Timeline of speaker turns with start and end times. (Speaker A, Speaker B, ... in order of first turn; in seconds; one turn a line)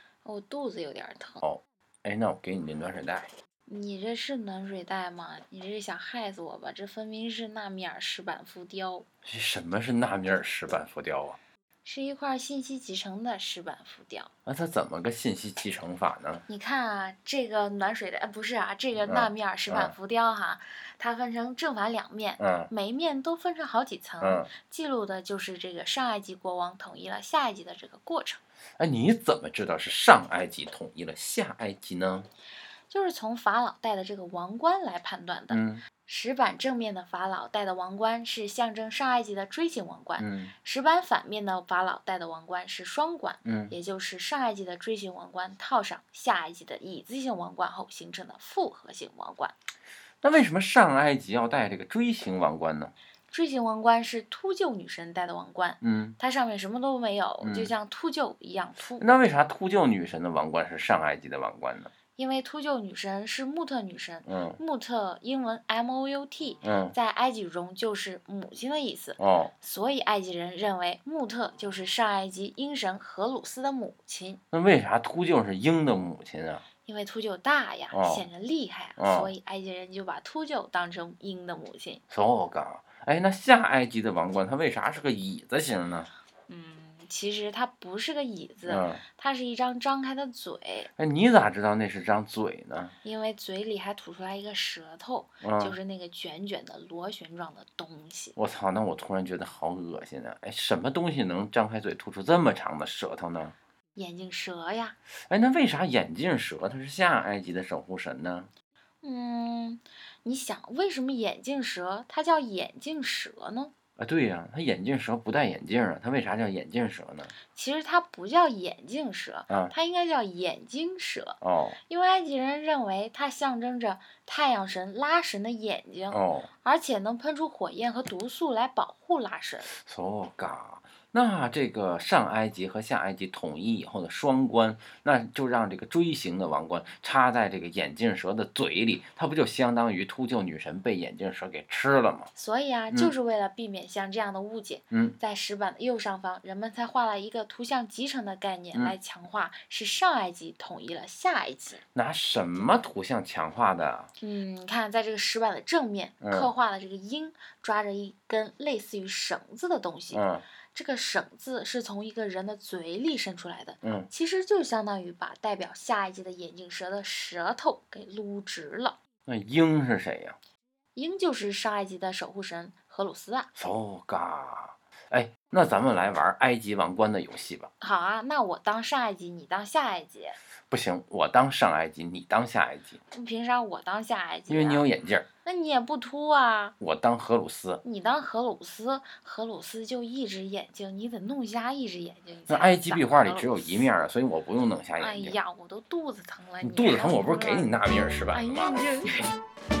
Speaker A: 0.2-1.4
Speaker B: 1.4-3.3
Speaker A: 3.6-9.1
Speaker B: 9.2-11.4
Speaker A: 11.8-14.3
Speaker B: 14.4-16.4
Speaker A: 16.5-28.4
Speaker B: 19.0-19.9
Speaker B: 22.4-22.7
Speaker B: 24.2-24.5
Speaker B: 28.8-32.3
Speaker A: 32.9-49.5
Speaker B: 35.5-35.8
Speaker B: 40.2-40.5
Speaker B: 43.4-43.7
Speaker B: 50.2-52.9
Speaker A: 53.3-59.2
Speaker B: 55.8-56.1
Speaker B: 57.4-57.7
Speaker B: 59.0-61.9
Speaker A: 62.2-74.4
Speaker B: 64.2-64.6
Speaker B: 66.6-67.0
Speaker B: 69.2-69.5
Speaker B: 74.5-76.6
Speaker A: 76.8-82.0
Speaker B: 77.9-78.2
Speaker B: 79.0-79.3
Speaker B: 82.1-86.1
Speaker A: 86.5-90.9
Speaker B: 88.7-89.0
Speaker B: 91.0-92.9
Speaker A: 93.0-98.3
Speaker B: 95.4-95.8
Speaker B: 98.3-103.5
Speaker A: 104.0-105.0
Speaker B: 105.3-108.5
Speaker A: 109.0-113.7
Speaker B: 114.0-117.3
Speaker A: 117.5-129.7
Speaker B: 119.5-119.7
Speaker B: 121.4-121.8
Speaker B: 126.1-126.5
Speaker B: 129.7-142.3
Speaker A: 142.3-151.8
Speaker B: 144.9-145.2
Speaker B: 151.9-154.1
Speaker A: 154.2-169.0
Speaker B: 156.2-156.5
Speaker B: 160.1-160.4
Speaker B: 163.8-164.1
Speaker B: 169.2-170.4
Speaker A: 170.9-173.5
Speaker B: 173.6-177.7
Speaker A: 177.8-180.4
Speaker B: 180.7-183.0
Speaker A: 183.1-184.9
Speaker B: 184.5-185.2
Speaker A: 185.4-186.7
Speaker B: 186.8-187.8
Speaker A: 187.8-193.8
Speaker B: 192.5-195.3
Speaker A: 195.0-197.7
Speaker B: 196.6-199.2
Speaker A: 198.3-199.3